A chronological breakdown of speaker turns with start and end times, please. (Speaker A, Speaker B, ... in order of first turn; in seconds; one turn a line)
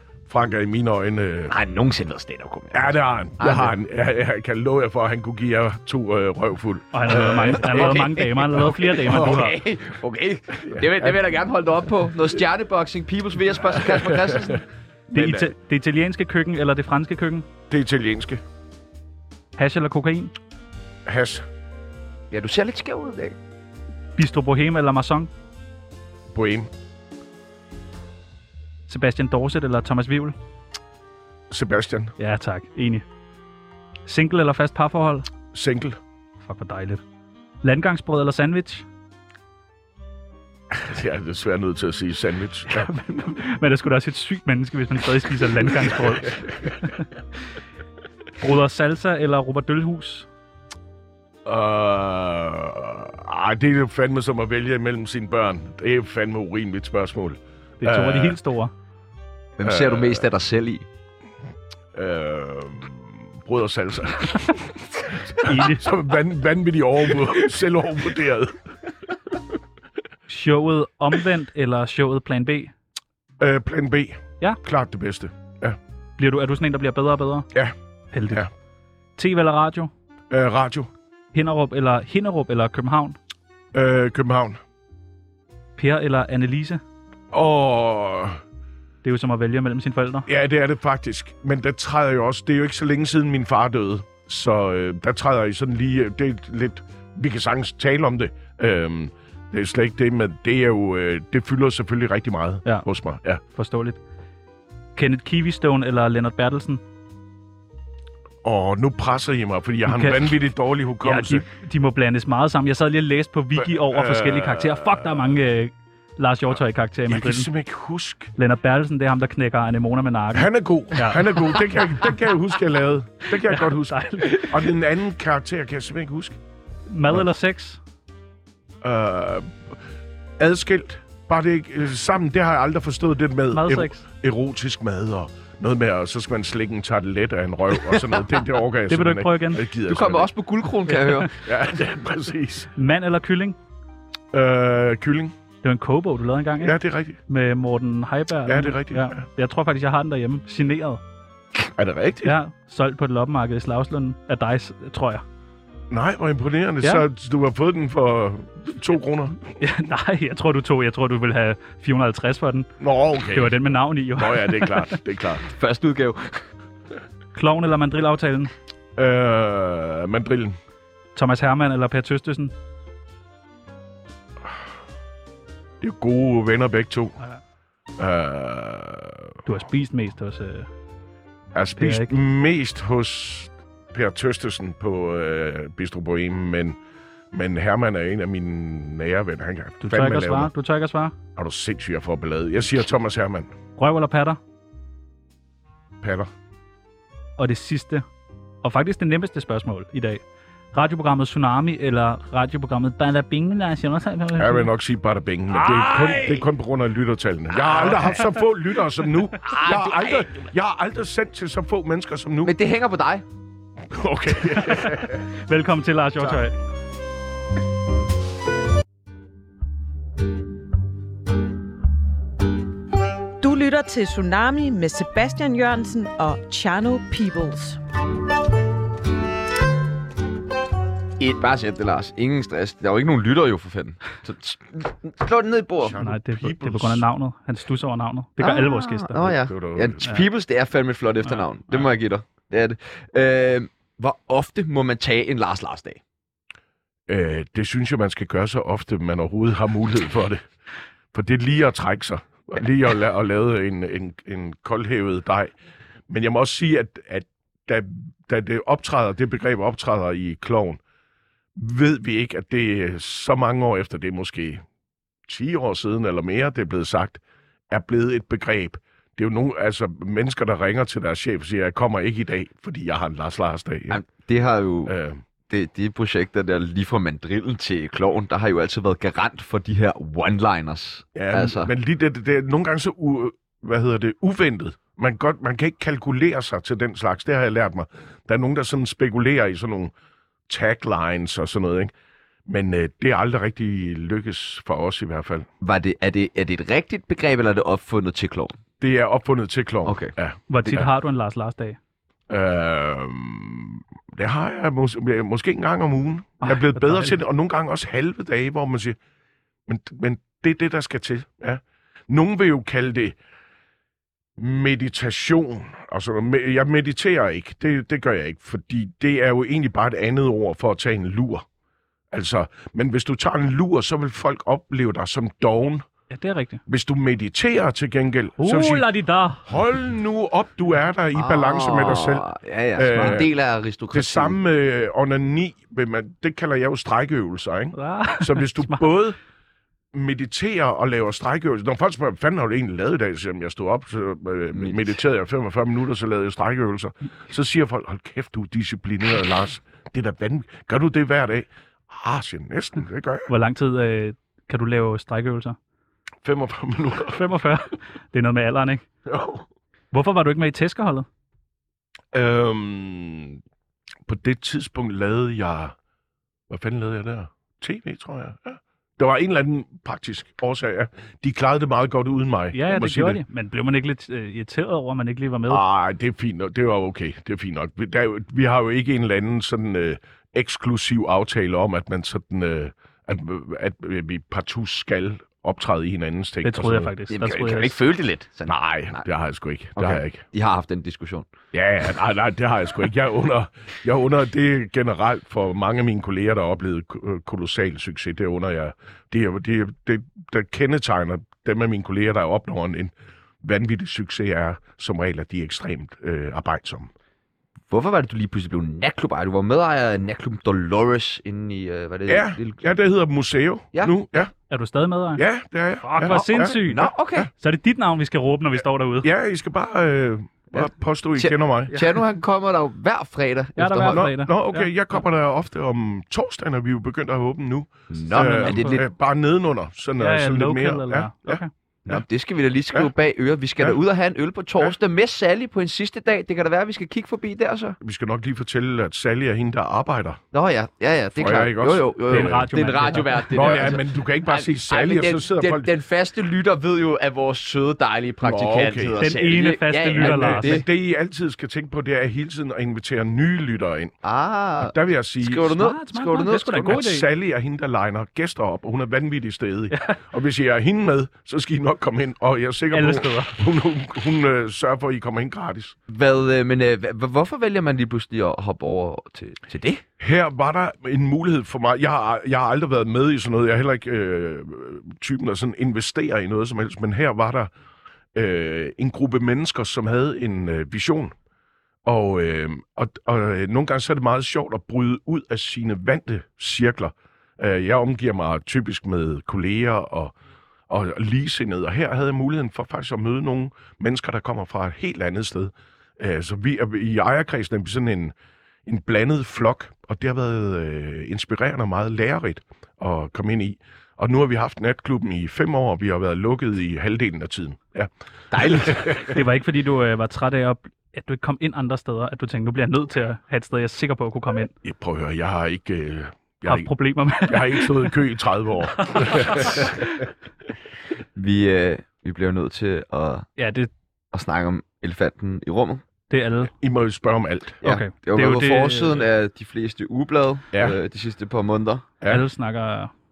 Speaker A: 0.3-1.5
Speaker B: 1.5-3.7
Speaker A: 2.7-9.5
Speaker C: 6.9-9.6
Speaker B: 7.6-14.6
Speaker A: 10.6-11.2
Speaker A: 13.8-14.6
Speaker C: 15.1-17.5
Speaker A: 15.1-15.5
Speaker A: 17.7-18.4
Speaker C: 19.6-20.3
Speaker A: 21.1-21.4
Speaker B: 22.3-23.3
Speaker C: 24.2-25.3
Speaker A: 26.3-26.7
Speaker C: 28.9-30.3
Speaker A: 31.5-32.1
Speaker C: 32.2-33.0
Speaker C: 34.1-35.3
Speaker A: 35.5-36.0
Speaker C: 36.4-37.0
Speaker C: 37.6-38.9
Speaker A: 40.7-42.9
Speaker C: 42.7-47.0
Speaker A: 45.8-46.5
Speaker C: 48.4-50.3
Speaker A: 51.4-58.4
Speaker C: 57.8-58.7
Speaker B: 59.6-60.8
Speaker A: 59.6-60.3
Speaker A: 61.9-68.6
Speaker C: 65.4-65.8
Speaker C: 70.3-72.7
Speaker A: 73.4-75.8
Speaker C: 76.2-77.5
Speaker C: 78.1-78.4
Speaker C: 79.2-79.9
Speaker A: 80.3-80.9
Speaker C: 81.3-83.2
Speaker A: 83.7-84.6
Speaker C: 85.8-86.8
Speaker A: 87.3-88.4
Speaker C: 89.0-90.3
Speaker A: 90.2-103.4
Speaker C: 103.5-104.0
Speaker C: 105.0-106.8
Speaker A: 108.4-111.4
Speaker C: 109.9-110.4
Speaker C: 111.0-117.5
Speaker A: 113.6-115.3
Speaker A: 117.1-118.3
Speaker C: 118.4-122.3
Speaker A: 120.3-126.4
Speaker C: 123.3-124.8
Speaker C: 126.9-127.8
Speaker A: 128.8-129.8
Speaker A: 130.4-140.3
Speaker C: 133.5-134.1
Speaker C: 138.9-139.6
Speaker B: 139.9-141.3
Speaker C: 140.9-141.3
Speaker A: 141.4-142.7
Speaker C: 142.8-143.6
Speaker A: 144.3-145.3
Speaker C: 145.6-146.8
Speaker A: 146.6-147.2
Speaker C: 147.3-151.0
Speaker A: 148.4-149.2
Speaker A: 151.6-152.4
Speaker C: 152.2-155.2
Speaker A: 155.9-159.4
Speaker C: 159.6-162.7
Speaker A: 162.8-163.6
Speaker C: 163.3-165.0
Speaker A: 164.1-165.4
Speaker B: 165.5-166.4
Speaker C: 167.3-168.5
Speaker A: 168.9-170.6
Speaker C: 171.1-172.5
Speaker A: 175.8-177.2
Speaker A: 178.0-179.4
Speaker C: 179.4-180.7
Speaker A: 181.5-186.8
Speaker C: 181.8-182.1
Speaker A: 187.3-190.5
Speaker C: 189.8-191.1
Speaker A: 191.3-193.5
Speaker C: 193.8-194.4
Speaker A: 196.0-196.3
Speaker C: 197.4-198.0
Speaker C: 198.6-200.2
Speaker C: 200.7-204.7
Speaker A: 204.3-212.5
Speaker B: 205.8-206.2
Speaker B: 209.4-210.4
Speaker B: 212.4-213.2
Speaker A: 213.9-215.3
Speaker C: 214.6-216.5
Speaker D: 223.4-227.8
Speaker B: 231.2-236.0
Speaker A: 235.8-237.0
Speaker C: 236.0-239.2
Speaker B: 238.4-246.0
Speaker A: 239.2-240.2
Speaker A: 247.1-250.4
Speaker A: 251.1-255.5
Speaker A: 256.1-260.8
Speaker A: 261.6-264.6
Speaker A: 265.3-274.0
Speaker B: 273.9-274.9
Speaker A: 274.9-275.2
Speaker B: 275.5-281.7
Speaker A: 281.1-289.9
Speaker A: 290.5-291.9
Speaker A: 292.5-295.5
Speaker B: 295.6-298.5
Speaker A: 298.8-300.9
Speaker B: 299.9-300.1
Speaker C: 300.5-301.8
Speaker A: 302.3-309.0
Speaker C: 306.4-307.2
Speaker A: 309.7-313.2
Speaker A: 314.4-321.4
Speaker A: 322.1-325.9
Speaker C: 326.1-326.6
Speaker A: 326.7-328.9
Speaker C: 328.4-329.4
Speaker A: 329.4-333.3
Speaker B: 331.1-334.4
Speaker A: 333.9-339.2
Speaker C: 337.7-338.9
Speaker A: 339.9-353.3
Speaker B: 344.5-344.8
Speaker C: 353.3-355.6
Speaker A: 356.2-357.2
Speaker C: 357.1-358.9
Speaker A: 359.1-359.4
Speaker C: 359.9-361.1
Speaker A: 362.1-363.4
Speaker A: 364.1-365.7
Speaker A: 366.5-373.2
Speaker C: 372.5-375.6
Speaker A: 375.5-386.9
Speaker C: 386.4-387.8
Speaker B: 387.1-389.0
Speaker A: 388.4-390.2
Speaker B: 389.8-391.3
Speaker A: 391.5-406.9
Speaker B: 407.7-412.6
Speaker A: 412.1-414.3
Speaker C: 414.5-415.2
Speaker A: 415.1-417.3
Speaker C: 415.8-419.1
Speaker B: 416.4-417.3
Speaker A: 419.0-421.7
Speaker B: 420.5-424.1
Speaker C: 421.7-422.0
Speaker C: 423.6-424.9
Speaker A: 423.9-432.0
Speaker B: 427.9-428.8
Speaker C: 428.4-428.8
Speaker C: 430.0-431.5
Speaker B: 431.9-437.8
Speaker A: 437.8-440.2
Speaker B: 440.3-450.6
Speaker A: 441.1-442.4
Speaker C: 442.1-443.8
Speaker A: 443.3-445.7
Speaker A: 448.2-448.9
Speaker C: 449.0-450.6
Speaker A: 450.0-453.9
Speaker B: 454.0-456.6
Speaker A: 454.6-455.6
Speaker C: 455.6-457.1
Speaker A: 456.5-465.7
Speaker C: 462.7-463.4
Speaker B: 465.9-469.8
Speaker A: 470.0-477.5
Speaker A: 478.1-481.1
Speaker A: 481.8-490.1
Speaker A: 490.7-498.1
Speaker A: 498.6-509.2
Speaker B: 508.3-508.8
Speaker C: 509.1-514.5
Speaker A: 514.6-516.7
Speaker C: 516.4-517.9
Speaker A: 517.2-519.9
Speaker C: 518.8-519.9
Speaker B: 521.1-523.2
Speaker C: 523.4-523.7
Speaker B: 524.1-525.8
Speaker C: 526.1-526.5
Speaker A: 526.5-527.6
Speaker C: 527.6-529.0
Speaker B: 527.6-531.8
Speaker A: 532.0-532.2
Speaker C: 532.1-532.9